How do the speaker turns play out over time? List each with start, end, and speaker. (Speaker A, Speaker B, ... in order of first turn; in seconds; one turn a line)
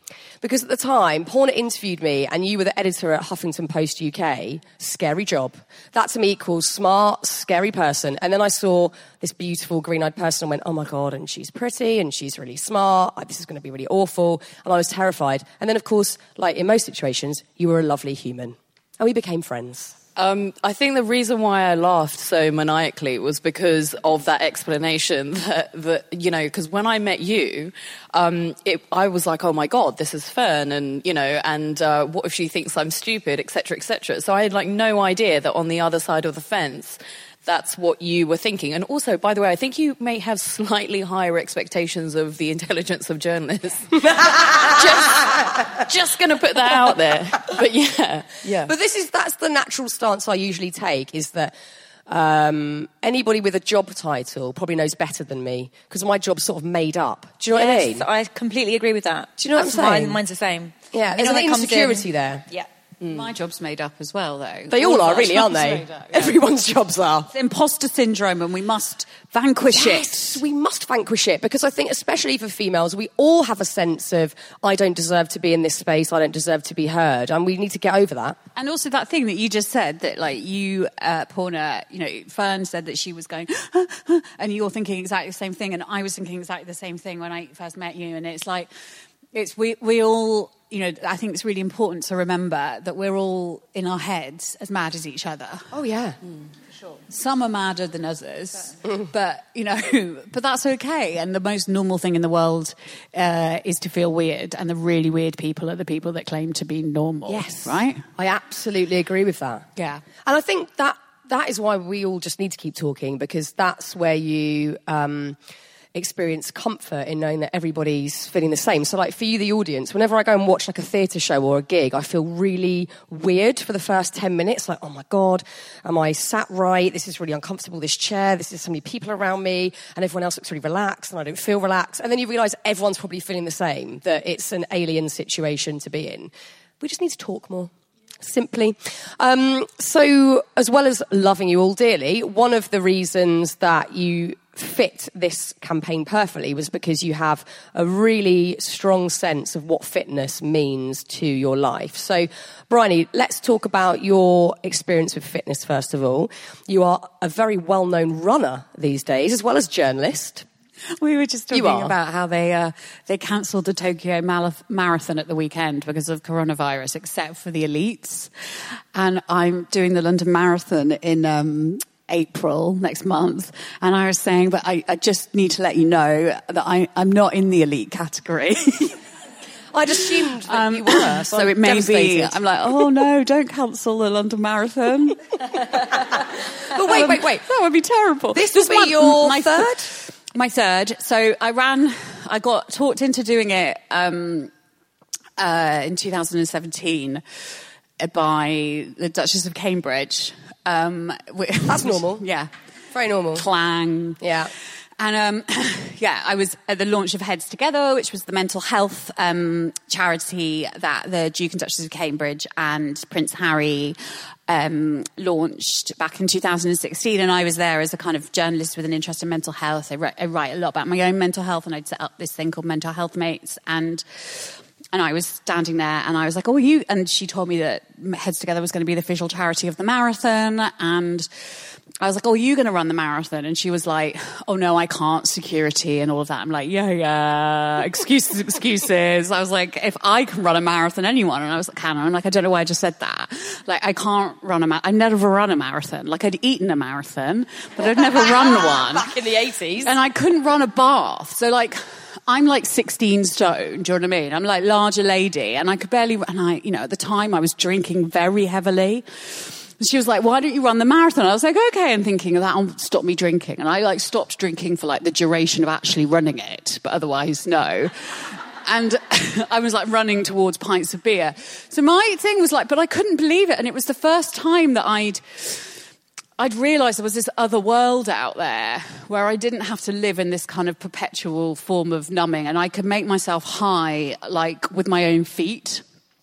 Speaker A: 0.4-19.9
Speaker B: 20.1-48.7
Speaker A: 44.2-45.2
Speaker A: 48.6-51.5
Speaker A: 52.1-58.0
Speaker C: 57.5-62.7
Speaker A: 59.4-60.2
Speaker A: 60.9-62.5
Speaker D: 63.1-66.4
Speaker A: 64.7-67.3
Speaker D: 67.3-70.4
Speaker A: 69.7-78.4
Speaker D: 78.5-88.7
Speaker D: 89.3-95.7
Speaker A: 95.7-96.2
Speaker D: 97.1-108.0
Speaker A: 107.3-109.7
Speaker D: 109.8-110.0
Speaker A: 110.2-115.4
Speaker A: 115.9-160.4
Speaker D: 161.0-168.3
Speaker A: 161.5-161.9
Speaker D: 168.9-179.0
Speaker A: 179.7-182.4
Speaker D: 180.4-186.2
Speaker A: 186.7-187.4
Speaker D: 186.8-194.5
Speaker A: 188.3-189.9
Speaker D: 195.4-197.2
Speaker D: 198.0-202.5
Speaker A: 201.7-202.2
Speaker A: 202.9-203.4
Speaker D: 203.3-204.2
Speaker A: 204.2-204.5
Speaker D: 205.0-213.9
Speaker D: 214.5-231.3
Speaker D: 232.0-249.1
Speaker A: 248.0-249.9
Speaker D: 249.8-275.8
Speaker D: 276.4-285.8